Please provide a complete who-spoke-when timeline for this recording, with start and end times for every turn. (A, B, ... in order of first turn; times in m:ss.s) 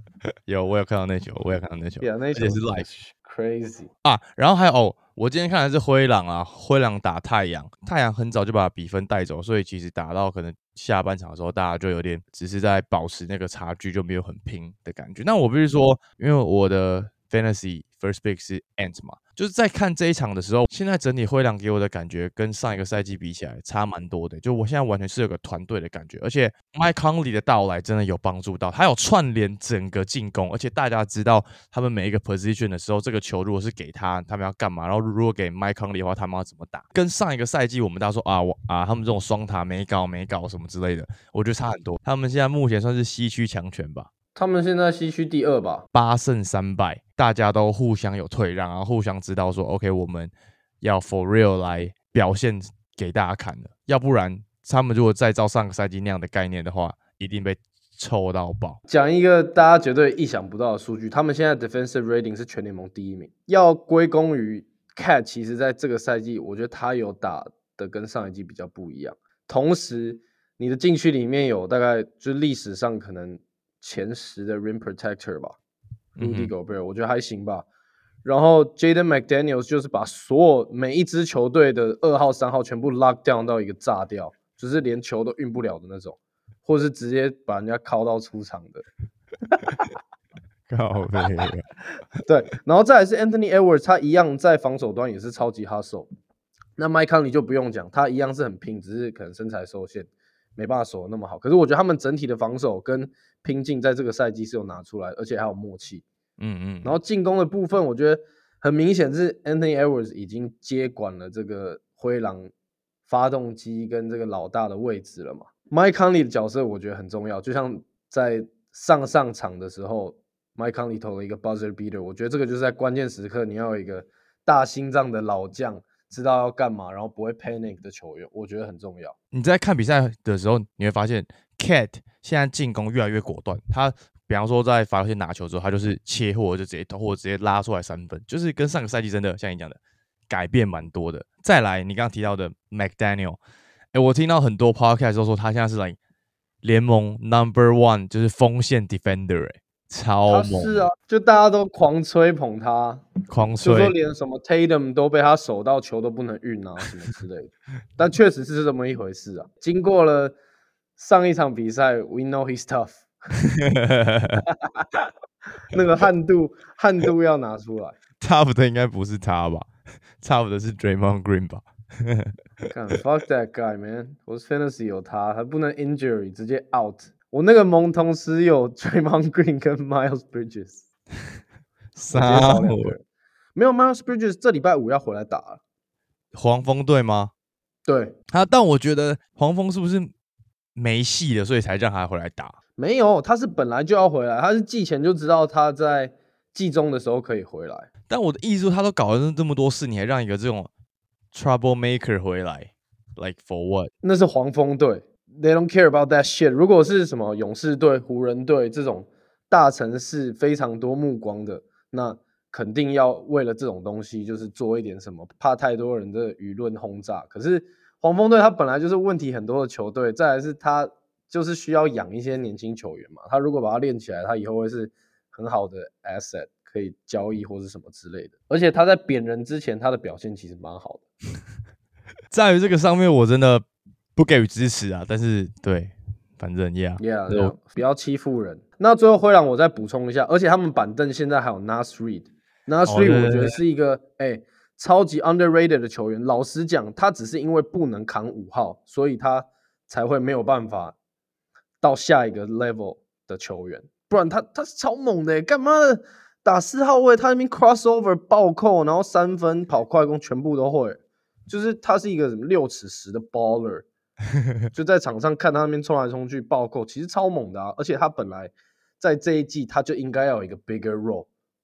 0:00.5-0:02.9 A
0:02.0-0:03.9 B
0:04.0-0:44.1 A
0:44.4-0:45.8 B
0:45.9-0:58.8 A
0:58.9-1:15.6 B
1:16.2-1:16.5 A
1:16.2-1:17.7 B
1:18.2-1:28.8 B
1:29.5-1:29.8 B
1:30.7-1:31.7 A
1:32.2-1:36.1 B
1:36.8-1:46.0 B
1:46.4-1:47.0 A
1:46.8-1:52.5 B
1:53.1-2:09.2 B
2:09.3-2:23.4 A
2:23.9-2:26.0 A
2:26.6-2:30.9 A
2:30.3-2:33.1 B
2:33.3-2:33.9 A
2:33.6-2:40.4 B
2:41.0-2:43.1 B
2:43.5-2:44.4 A
2:44.5-2:45.1 B
2:45.7-2:48.0 B
2:48.2-2:49.7 A
2:50.2-2:52.3 A
2:52.7-3:00.8 B
3:02.0-3:03.0 A
3:02.1-3:03.0 B
3:03.6-3:05.6 B
3:06.3-3:07.3 A
3:07.9-3:08.2 B
3:08.3-3:10.1 A
3:10.8-3:12.6 A
3:12.8-3:17.9 B
3:18.1-3:20.7 A
3:21.3-3:23.9 A
3:24.0-3:51.0 B
3:52.3-3:53.6 A
3:54.2-3:57.6 A
3:57.0-4:11.0 B
4:02.9-4:03.6 A
4:11.8-4:23.9 B
4:24.7-4:31.3 B